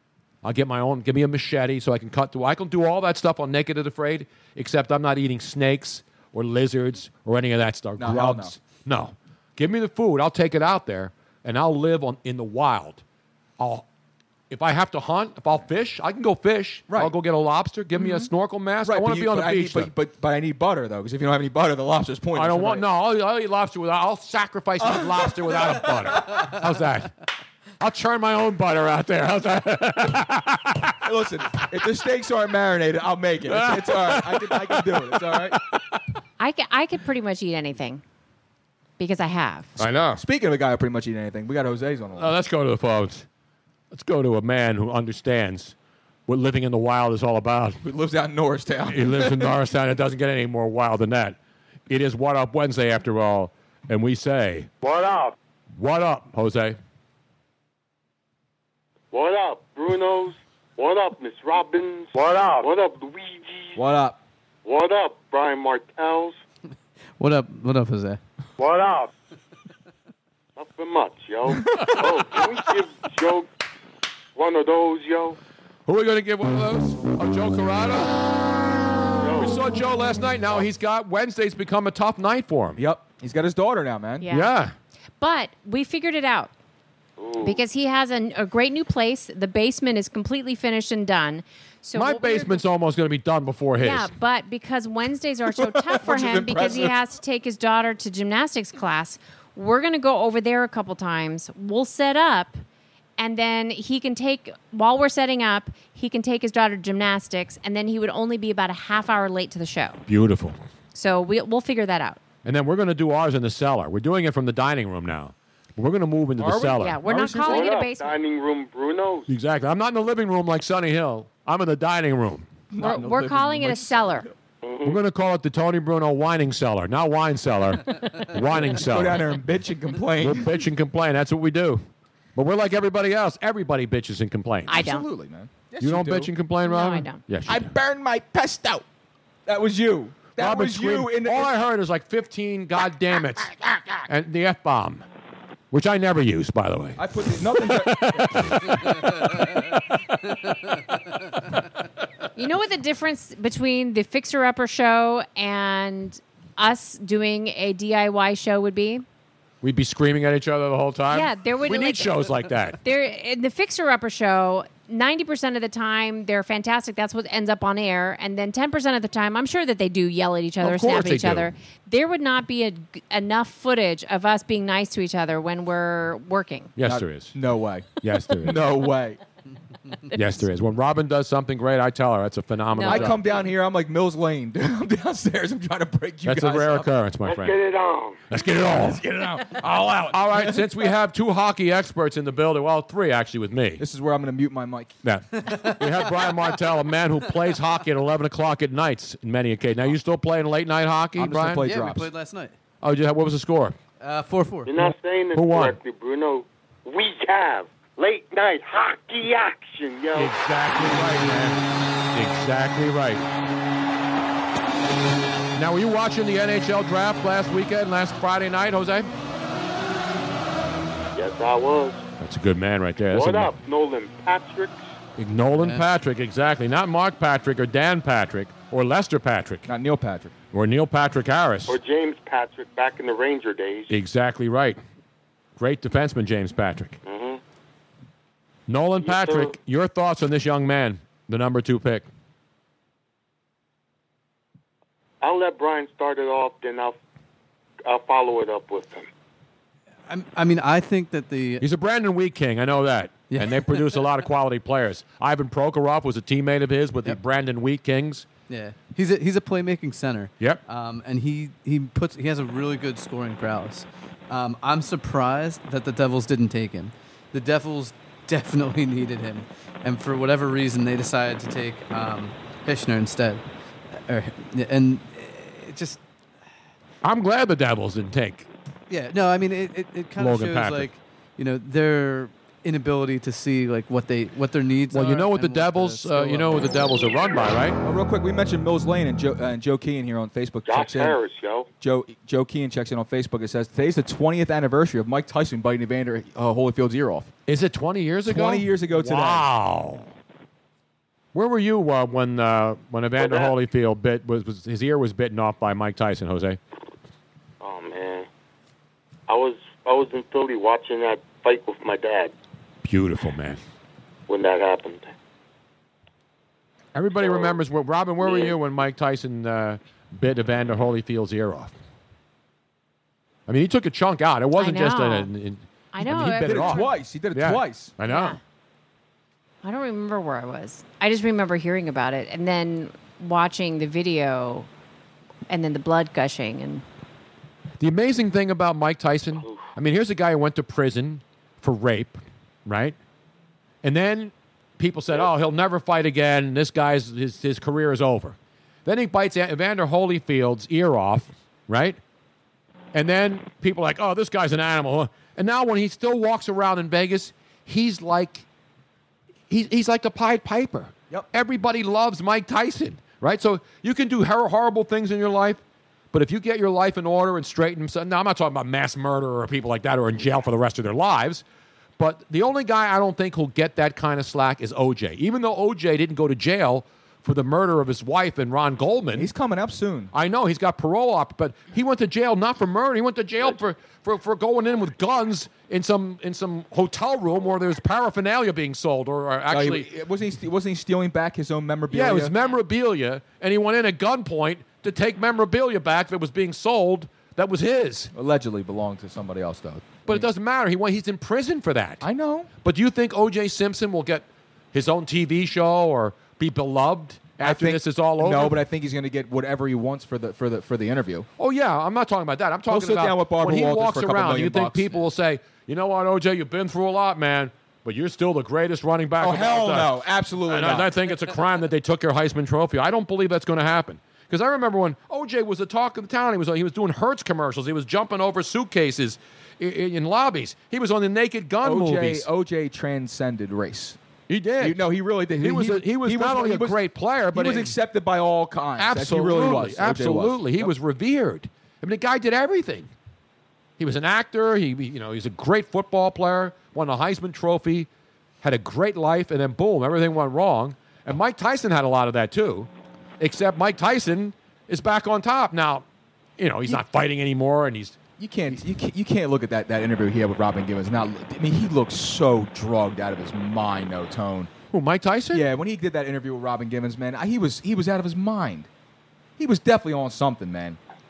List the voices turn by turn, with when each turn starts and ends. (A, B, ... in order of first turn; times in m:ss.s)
0:00.4-0:13.0 A
0:08.0-0:08.5 B
0:13.6-0:13.8 A
0:14.5-0:19.9 A
0:18.0-0:18.3 B
0:18.8-0:22.8 B
0:22.3-0:27.1 A
0:24.8-0:25.9 B
0:27.8-0:30.9 A
0:31.0-0:35.6 B
0:33.5-0:35.8 A
0:36.4-0:38.0 C
0:39.0-0:39.7 C
0:39.8-0:40.2 A
0:40.1-0:42.3 B
0:42.2-0:43.3 A
0:43.9-0:45.8 A
0:46.3-0:47.8 A
0:47.8-0:49.6 B
0:48.9-0:51.4 A
0:51.9-0:54.7 A
0:54.8-0:55.3 D
0:55.8-0:56.8 A
0:59.1-1:03.8 D
1:03.8-1:04.2 B
1:04.6-1:06.4 D
1:07.2-1:08.2 E
1:08.6-1:09.1 D
1:10.6-1:13.5 D
1:11.5-1:11.9 B
1:14.4-1:15.4 D
1:15.9-1:18.3 A
1:19.2-1:19.6 D
1:19.4-1:22.8 A
1:22.8-1:24.3 B
1:24.2-1:24.5 C
1:24.3-1:24.7 A
1:25.2-1:26.5 C
1:27.2-1:27.6 D
1:27.4-1:32.6 C
1:32.0-1:34.1 A
1:33.8-1:42.6 C
1:35.5-1:37.0 B
1:43.2-1:50.0 C
1:50.1-1:50.6 A
1:50.9-1:52.2 C
1:52.4-1:57.0 A
1:56.4-1:57.7 B
1:56.8-1:58.2 C
1:57.4-1:59.3 D
1:59.3-2:02.5 A
2:02.7-2:04.3 B
2:02.8-2:04.3 C
2:04.6-2:05.0 D
2:04.8-2:09.3 A
2:08.7-2:10.5 B
2:10.2-2:11.8 A
2:12.4-2:14.8 A
2:14.7-2:15.1 C
2:14.7-2:16.3 B
2:15.8-2:17.7 A
2:16.6-2:17.2 C
2:17.5-2:18.8 B
2:19.5-2:21.5 B
2:20.4-2:25.0 A
2:25.7-2:29.1 A
2:27.0-2:28.5 B
2:32.4-2:39.0 C
2:39.6-2:42.8 A
2:41.1-2:42.2 C
2:42.8-2:56.7 C
2:50.6-2:51.5 A
2:56.8-2:57.4 A
2:56.8-2:59.2 B
2:58.0-2:58.6 A
3:00.1-3:03.2 A
3:02.8-3:03.2 C
3:02.8-3:06.9 B
3:06.3-3:07.6 A
3:07.2-3:08.2 D
3:08.3-3:09.0 A
3:08.6-3:10.7 B
3:10.1-3:13.8 A
3:13.8-3:14.9 B
3:15.0-3:21.6 A
3:15.5-3:15.7 E
3:21.2-3:22.1 B
3:21.6-3:22.6 E
3:22.8-3:23.8 A
3:24.0-3:24.8 E
3:24.7-3:30.3 D
3:25.3-3:25.8 A
3:30.1-3:31.6 A
3:32.1-3:33.2 A
3:35.6-3:39.1 A
3:41.1-3:42.0 D
3:42.2-3:43.5 A
3:43.1-3:44.8 D
3:45.2-3:49.7 A
3:45.6-3:45.9 E
3:49.7-3:50.3 B
3:50.5-3:51.8 A
3:51.7-3:54.0 D
3:53.9-3:54.8 A
3:55.6-3:57.0 A
3:57.0-3:57.4 D
3:58.7-4:02.1 A
3:59.0-3:59.6 D
4:05.2-4:07.0 D
4:07.8-4:09.1 D
4:10.1-4:11.6 E
4:11.6-4:18.3 A
4:13.3-4:14.1 E
4:18.5-4:33.4 E
4:34.1-4:36.0 E
4:37.0-4:38.5 A
4:38.9-4:46.6 E
4:40.2-4:40.9 A
4:44.9-4:47.8 A
4:47.8-4:51.2 B
4:50.6-4:51.7 D
4:51.8-4:57.3 B
4:57.5-5:00.1 A
4:58.3-4:59.5 B
5:01.3-5:06.6 A
5:03.2-5:03.5 D
5:07.6-5:08.3 D
5:09.3-5:12.3 D
5:12.8-5:13.6 A
5:14.3-5:15.1 D
5:17.0-5:21.7 A
5:17.2-5:17.6 D
5:18.2-5:18.6 D
5:23.5-5:28.4 A
5:24.6-5:25.3 C
5:25.9-5:26.9 C
5:26.4-5:27.9 B
5:28.1-5:28.4 C
5:29.6-5:34.7 C
5:35.5-5:36.8 C
5:37.8-5:43.0 A
5:39.4-5:39.7 D
5:43.8-5:52.0 A
5:52.9-5:58.4 A
5:59.5-6:05.6 A
6:06.1-6:11.4 A
6:12.0-6:19.3 A
6:19.1-6:20.1 B
6:20.1-6:29.9 A
6:29.5-6:32.3 B
6:31.9-6:38.1 A
6:38.1-6:40.3 B
6:40.1-6:42.1 A
6:42.0-6:42.5 B
6:42.6-6:48.6 A
6:47.4-6:51.3 B
6:51.4-7:12.3 A
6:52.7-6:54.8 B
6:59.2-7:00.9 B
7:11.6-7:14.0 B
7:14.3-7:14.8 A
7:14.6-7:16.8 B
7:15.4-7:17.8 A
7:17.3-7:20.7 B
7:18.8-7:22.9 A
7:23.8-7:27.9 A
7:28.4-7:32.7 A
7:33.2-7:35.8 A
7:36.4-7:38.0 A
7:38.2-7:44.5 B
7:44.7-7:45.5 A
7:45.3-7:48.7 B
7:49.4-7:50.8 B